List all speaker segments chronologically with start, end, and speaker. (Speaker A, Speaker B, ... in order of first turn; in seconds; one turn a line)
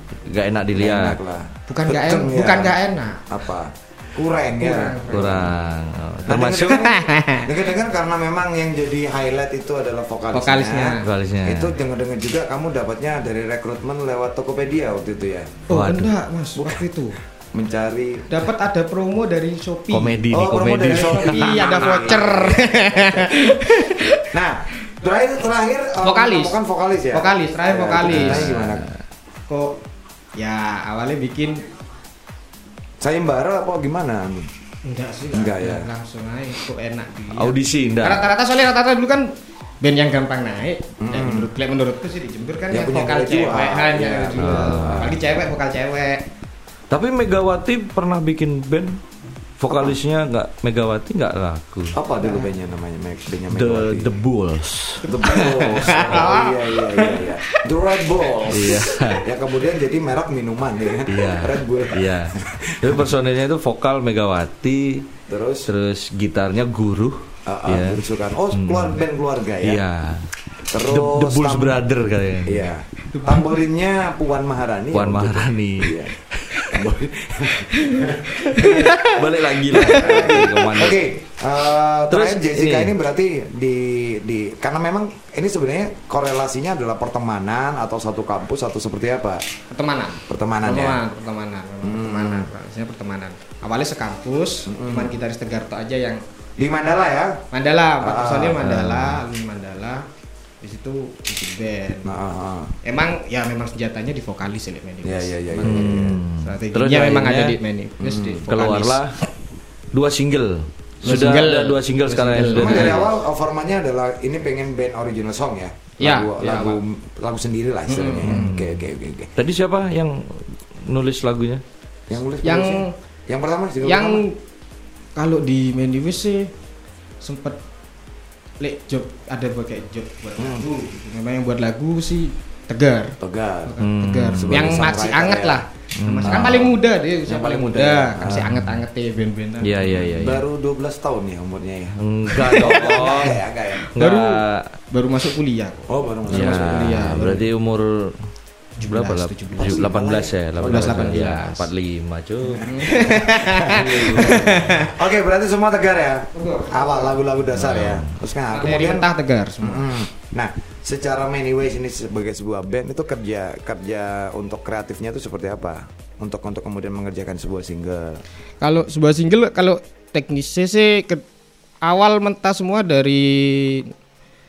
Speaker A: 0.2-1.2
Speaker B: 0.7-2.8
Speaker C: 1.7-3.3
Speaker B: 3.3-5.7
Speaker C: 4.6-5.5
Speaker A: 5.1-6.9
Speaker B: 6.2-15.7
Speaker C: 6.3-7.5
Speaker C: 10.3-11.1
Speaker A: 11.0-11.7
Speaker C: 15.7-17.2
Speaker A: 15.7-16.1
Speaker B: 16.6-16.8
Speaker B: 17.5-18.4
Speaker C: 18.3-20.2
Speaker A: 19.9-22.0
Speaker B: 20.3-23.3
Speaker C: 20.8-24.3
Speaker B: 24.3-28.9
Speaker C: 26.0-26.6
Speaker C: 27.1-28.5
Speaker A: 28.1-29.0
Speaker C: 29.5-29.8
Speaker C: 30.4-31.6
Speaker B: 33.0-34.5
Speaker C: 34.8-39.3
Speaker B: 35.3-35.9
Speaker A: 37.3-38.3
Speaker C: 39.8-46.2
Speaker B: 41.0-41.5
Speaker B: 42.7-45.2
Speaker A: 44.4-45.1
Speaker A: 46.9-49.0
Speaker A: 49.6-52.0
Speaker B: 49.7-49.9
Speaker B: 51.9-54.1
Speaker C: 52.2-52.5
Speaker A: 53.5-55.0
Speaker B: 55.0-63.1
Speaker C: 55.0-58.8
Speaker A: 58.5-59.3
Speaker A: 61.1-65.1
Speaker B: 65.3-65.7
Speaker A: 65.7-69.0
Speaker B: 67.5-69.8
Speaker A: 69.6-72.7
Speaker B: 70.7-71.8
Speaker B: 72.4-76.2
Speaker C: 73.1-73.6
Speaker A: 74.9-76.9
Speaker B: 76.7-89.4
Speaker C: 77.7-80.6
Speaker A: 78.5-81.0
Speaker A: 82.1-82.9
Speaker C: 89.7-96.2
Speaker B: 90.3-91.0
Speaker B: 91.8-92.5
Speaker B: 94.7-95.1
Speaker B: 96.6-97.4
Speaker C: 97.5-100.1
Speaker B: 98.0-98.7
Speaker A: 98.6-99.2
Speaker C: 100.6-102.1
Speaker B: 102.0-102.7
Speaker C: 102.8-109.0
Speaker B: 105.0-106.2
Speaker A: 105.6-107.6
Speaker B: 108.0-108.5
Speaker A: 108.5-109.2
Speaker A: 109.9-113.1
Speaker C: 111.0-113.1
Speaker B: 112.5-119.3
Speaker C: 116.0-116.8
Speaker C: 117.9-118.6
Speaker A: 118.3-118.7
Speaker A: 119.3-121.6
Speaker B: 122.1-124.2
Speaker C: 122.4-122.9
Speaker C: 123.8-124.4
Speaker C: 125.2-126.5
Speaker C: 127.2-127.6
Speaker C: 128.6-140.1
Speaker B: 130.4-130.6
Speaker B: 133.2-133.8
Speaker A: 133.8-134.7
Speaker B: 134.3-135.6
Speaker A: 136.0-136.7
Speaker B: 136.2-136.7
Speaker B: 137.2-138.5
Speaker A: 138.3-138.7
Speaker A: 139.6-140.4
Speaker B: 140.0-143.9
Speaker A: 142.0-143.4
Speaker C: 142.3-143.2
Speaker C: 143.8-147.5
Speaker A: 143.9-144.7
Speaker B: 145.9-147.2
Speaker A: 146.3-148.2
Speaker C: 148.8-149.9
Speaker A: 148.8-152.7
Speaker B: 149.6-151.2
Speaker C: 150.6-151.7
Speaker B: 152.5-159.1
Speaker C: 152.6-155.0
Speaker A: 153.7-154.6
Speaker C: 156.3-157.2
Speaker A: 157.6-158.2
Speaker C: 158.5-159.9
Speaker B: 159.6-168.2
Speaker C: 168.6-171.2
Speaker C: 171.8-173.9